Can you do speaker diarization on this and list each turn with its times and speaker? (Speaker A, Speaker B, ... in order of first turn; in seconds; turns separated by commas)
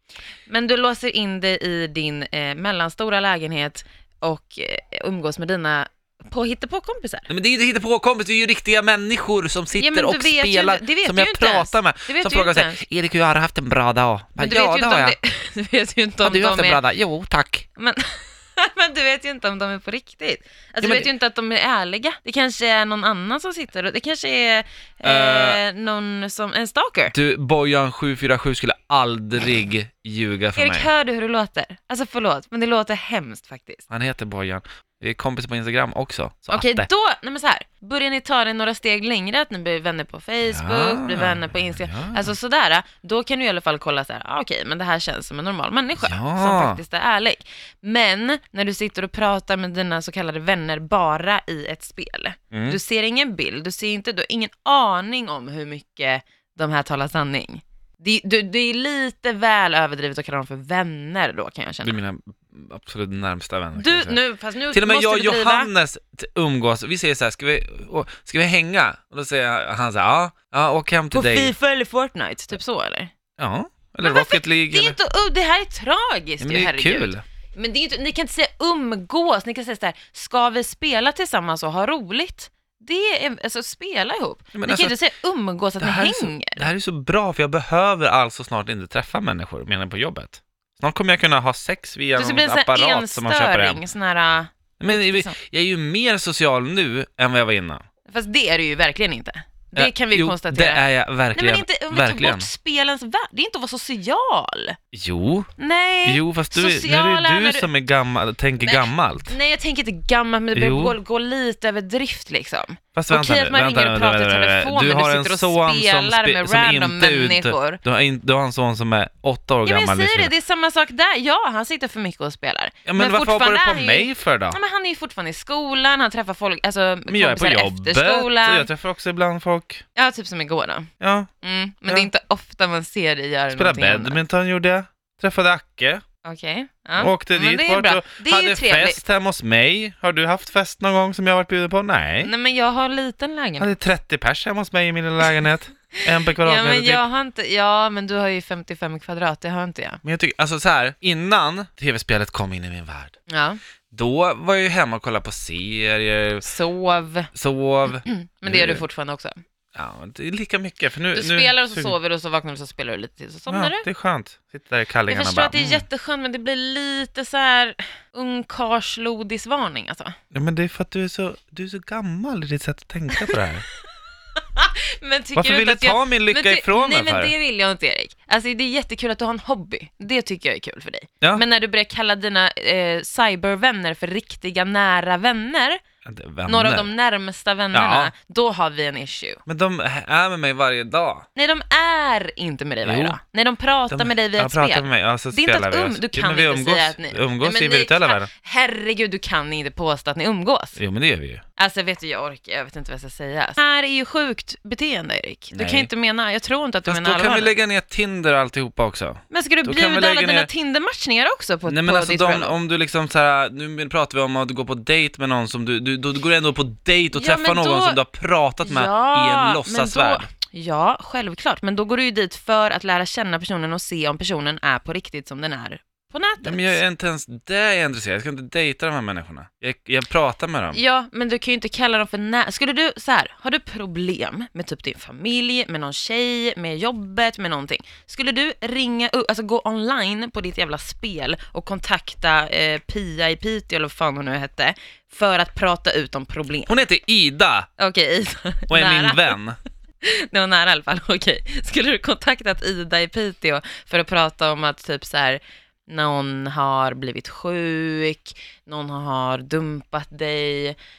Speaker A: 0.5-7.3, Speaker B: 7.3-15.2, Speaker A: 9.7-12.8, Speaker A: 14.4-16.8, Speaker B: 16.2-17.6, Speaker A: 17.8-27.1, Speaker B: 20.8-21.1, Speaker B: 25.0-25.6, Speaker B: 27.1-30.9, Speaker A: 30.6-33.8, Speaker B: 33.9-36.9, Speaker A: 36.5-62.0, Speaker B: 40.5-42.3, Speaker B: 46.0-46.8, Speaker B: 52.5-52.8, Speaker B: 61.8-71.5, Speaker A: 63.8-65.7, Speaker A: 71.1-73.1, Speaker B: 73.4-75.0, Speaker A: 74.0-86.7, Speaker B: 76.4-77.2, Speaker B: 84.5-85.0, Speaker B: 85.8-93.8, Speaker A: 92.2-95.3, Speaker B: 94.8-97.8, Speaker A: 98.1-100.8, Speaker B: 99.7-102.5, Speaker A: 101.3-104.8, Speaker B: 104.9-105.5, Speaker A: 105.6-107.7, Speaker B: 106.0-109.3, Speaker A: 108.6-117.8, Speaker B: 110.5-111.0, Speaker B: 113.0-120.3, Speaker A: 119.6-128.7, Speaker B: 122.8-124.6, Speaker B: 127.1-129.8, Speaker A: 129.9-130.9, Speaker B: 131.0-131.3, Speaker A: 131.4-134.2, Speaker B: 133.5-136.0, Speaker A: 136.2-139.0, Speaker B: 137.0-142.3, Speaker A: 142.2-143.8, Speaker B: 143.6-147.1, Speaker A: 146.3-150.0, Speaker B: 150.0-153.1, Speaker A: 153.3-153.6, Speaker B: 153.9-156.5, Speaker A: 156.4-157.3, Speaker B: 157.3-158.8, Speaker A: 157.9-159.4, Speaker B: 159.7-161.9, Speaker A: 161.1-163.8, Speaker B: 163.5-165.8, Speaker A: 165.1-170.1, Speaker B: 170.3-173.7, Speaker A: 174.3-185.8, Speaker B: 175.3-177.3, Speaker B: 186.0-186.9, Speaker A: 186.5-189.4, Speaker B: 187.7-188.1, Speaker B: 189.4-191.2, Speaker A: 191.3-200.8, Speaker B: 192.8-193.2, Speaker B: 193.9-198.3, Speaker B: 200.8-201.4, Speaker A: 201.6-207.6, Speaker B: 205.5-205.9, Speaker B: 206.8-210.5, Speaker A: 209.3-212.6, Speaker B: 211.7-220.3, Speaker A: 217.1-218.0, Speaker A: 218.6-226.8, Speaker B: 226.4-230.8, Speaker A: 230.7-246.8, Speaker B: 246.7-247.7, Speaker A: 247.8-249.4, Speaker B: 248.7-249.6, Speaker A: 250.0-260.8